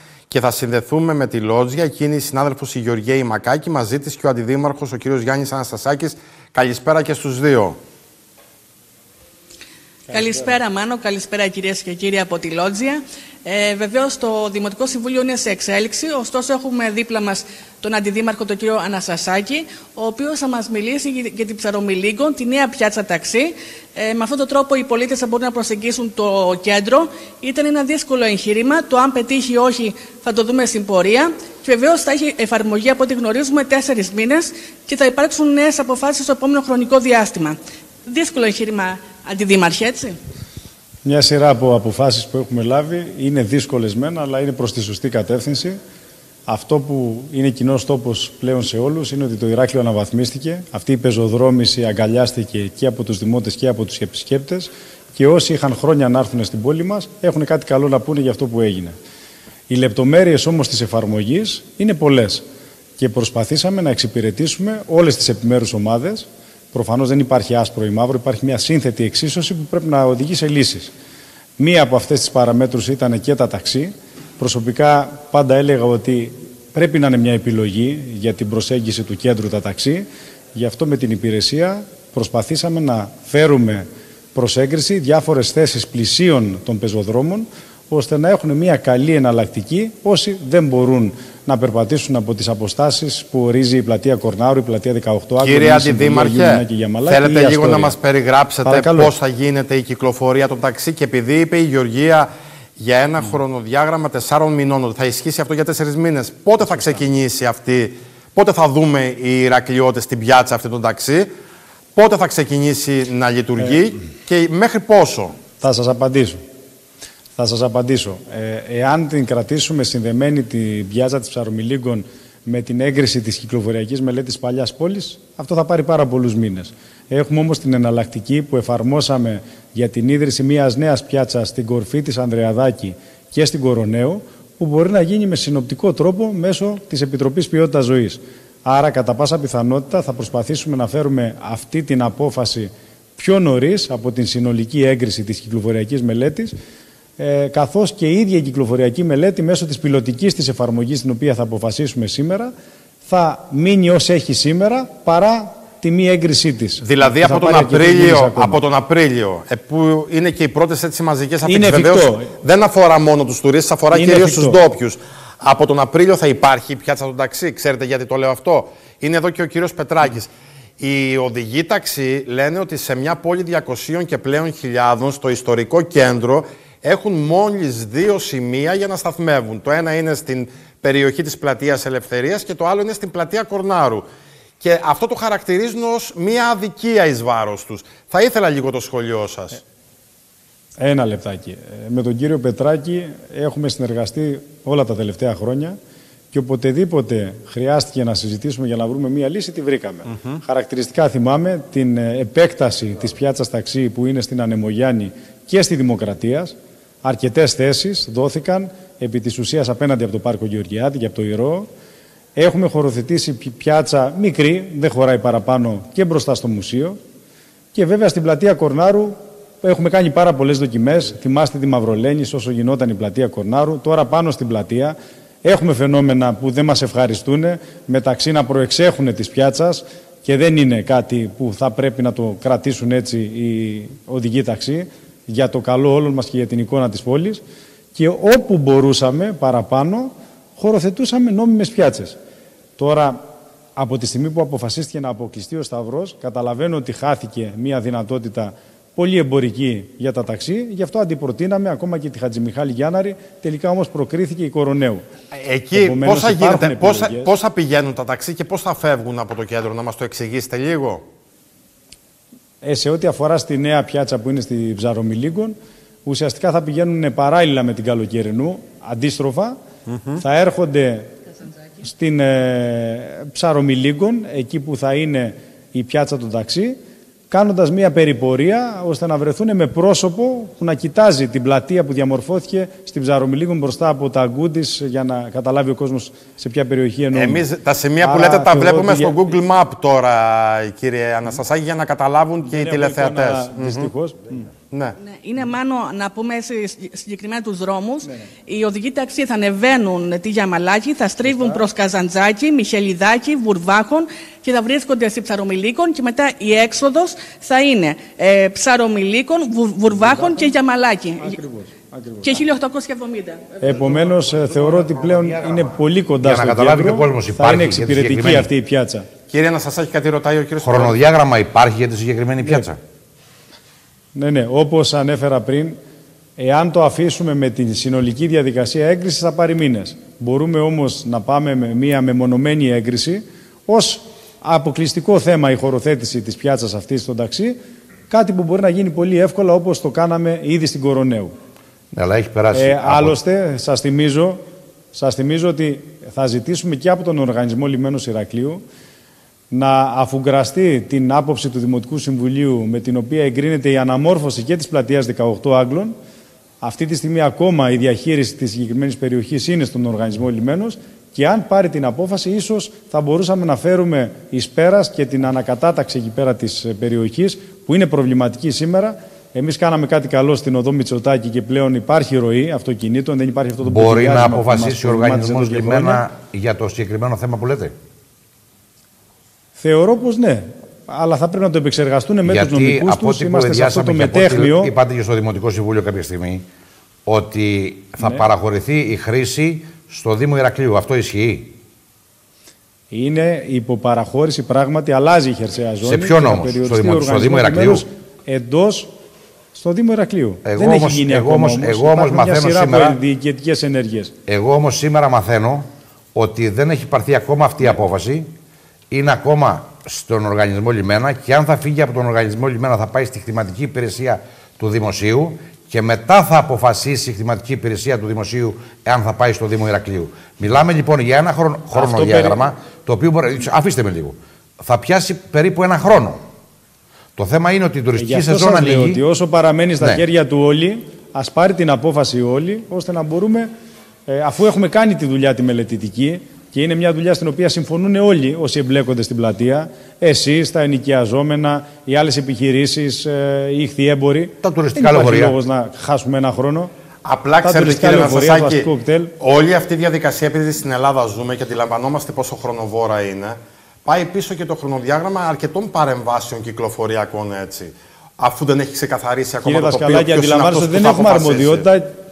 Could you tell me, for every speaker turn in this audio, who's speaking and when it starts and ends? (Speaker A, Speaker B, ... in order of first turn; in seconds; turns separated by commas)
Speaker A: 0.3-7.8, Speaker B: 10.1-40.2, Speaker C: 10.1-10.5, Speaker C: 41.0-45.8, Speaker C: 46.5-58.9, Speaker C: 59.7-62.4, Speaker C: 63.0-70.9, Speaker C: 71.6-97.9, Speaker A: 95.4-111.3, Speaker C: 98.7-99.1, Speaker C: 106.7-106.9, Speaker A: 111.9-115.3, Speaker C: 115.6-116.4, Speaker C: 117.3-146.5, Speaker C: 147.2-152.5, Speaker C: 153.1-158.6, Speaker A: 156.8-184.1, Speaker C: 161.4-162.3, Speaker C: 163.9-164.6, Speaker A: 184.6-189.6, Speaker C: 190.8-195.8, Speaker C: 196.3-211.7, Speaker C: 212.3-217.0, Speaker C: 217.7-237.4, Speaker C: 237.9-242.2, Speaker C: 242.8-243.2, Speaker C: 243.8-255.0, Speaker A: 255.3-261.0, Speaker C: 255.7-257.3, Speaker C: 262.6-269.6, Speaker C: 270.1-271.1, Speaker C: 271.8-276.8, Speaker C: 277.3-287.4, Speaker A: 287.1-293.9, Speaker C: 288.0-289.2, Speaker C: 292.4-294.5, Speaker A: 294.7-294.9, Speaker B: 295.1-311.4, Speaker C: 301.2-301.6, Speaker C: 309.9-310.5, Speaker C: 311.2-312.4, Speaker B: 312.2-313.6, Speaker C: 313.6-319.1, Speaker D: 314.4-315.7, Speaker D: 316.2-318.5, Speaker A: 319.3-321.0, Speaker D: 320.6-322.8, Speaker C: 322.4-322.7, Speaker C: 324.1-325.8, Speaker C: 326.4-337.6, Speaker C: 338.1-341.3, Speaker D: 341.9-343.2, Speaker C: 342.5-344.4, Speaker C: 344.9-348.6, Speaker C: 349.5-355.9, Speaker C: 356.6-376.0, Speaker D: 373.6-377.7, Speaker C: 379.6-384.7, Speaker D: 382.2-386.4, Speaker D: 387.1-391.5, Speaker C: 392.9-398.9, Speaker D: 395.8-397.8, Speaker C: 399.5-404.1, Speaker D: 400.4-403.0, Speaker D: 404.3-408.3, Speaker D: 408.9-426.2, Speaker C: 421.7-422.4, Speaker D: 427.1-429.0, Speaker C: 427.9-433.5, Speaker C: 434.1-446.7, Speaker D: 444.4-445.3, Speaker A: 447.0-461.7, Speaker C: 447.4-449.1, Speaker C: 459.4-461.9